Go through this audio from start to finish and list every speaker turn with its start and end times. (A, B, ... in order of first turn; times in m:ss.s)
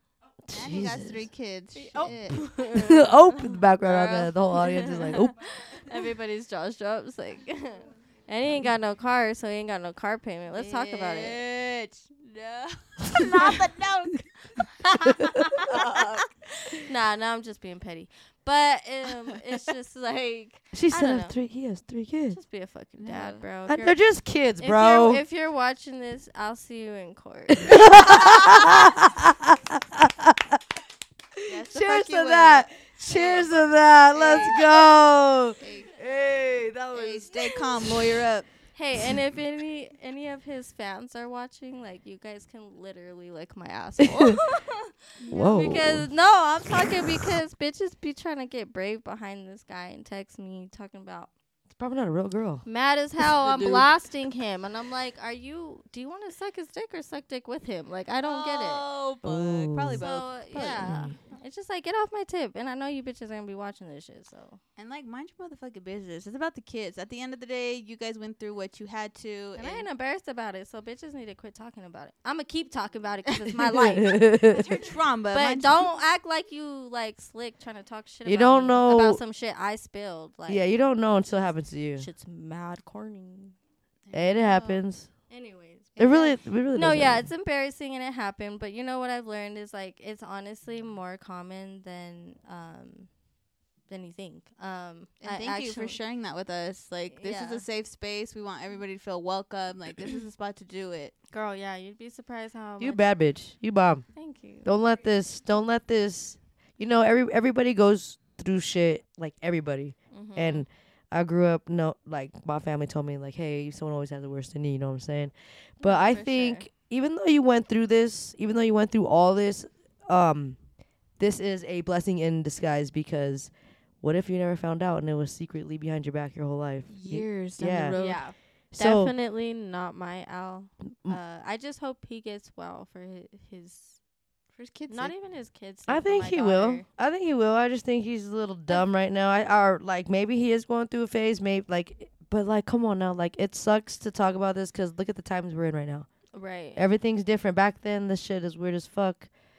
0:00.5-0:01.2 A
0:00.5-0:02.7 B
0:01.8-0:03.6 C
0:02.8-0:05.4 A
0:03.8-0:04.4 B
0:04.5-0:11.4 C
0:10.5-0:14.7 B
0:14.8-0:15.8 C
0:15.1-0:15.8 A
0:15.6-0:16.3 B
0:16.8-0:21.4 C
0:20.7-0:22.4 A
0:22.3-0:24.0 C
0:23.0-0:23.4 B
0:23.7-0:25.2 A
0:24.6-0:28.9 C
0:27.6-0:30.6 A
0:31.4-0:38.2 A
0:31.4-0:33.5 B
0:34.1-0:34.9 B
0:35.6-0:36.0 B
0:36.9-0:38.5 B
0:38.7-0:51.3 C
0:44.0-0:44.4 A
0:45.2-0:45.8 B
0:45.3-0:46.1 A
0:51.7-0:52.6 A
0:52.6-0:58.8 C
0:53.4-0:53.9 B
0:58.2-1:01.4 B
0:59.2-1:00.0 A
1:00.0-1:04.6 C
1:00.8-1:01.2 A
1:04.8-1:09.9 B
1:09.6-1:14.4 C
1:13.6-1:14.7 A
1:14.5-1:15.9 B
1:15.3-1:20.6 C
1:18.2-1:19.2 A
1:20.5-1:22.1 A
1:22.0-1:23.6 C
1:24.1-1:24.4 B
1:24.1-1:25.1 A
1:24.4-1:33.1 C
1:26.0-1:27.3 A
1:33.9-1:36.0 C
1:35.2-1:41.1 B
1:37.1-1:37.6 C
1:41.3-1:43.1 C
1:42.8-1:44.1 A
1:44.2-1:44.7 C
1:44.6-2:00.6 A
1:50.1-1:50.7 C
1:55.8-1:56.7 C
2:01.2-2:08.0 A
2:06.9-2:08.2 B
2:07.9-2:14.0 C
2:08.7-2:09.1 A
2:14.6-2:15.1 B
2:14.9-2:16.9 C
2:15.9-2:26.1 A
2:26.3-2:26.8 C
2:26.7-2:29.3 A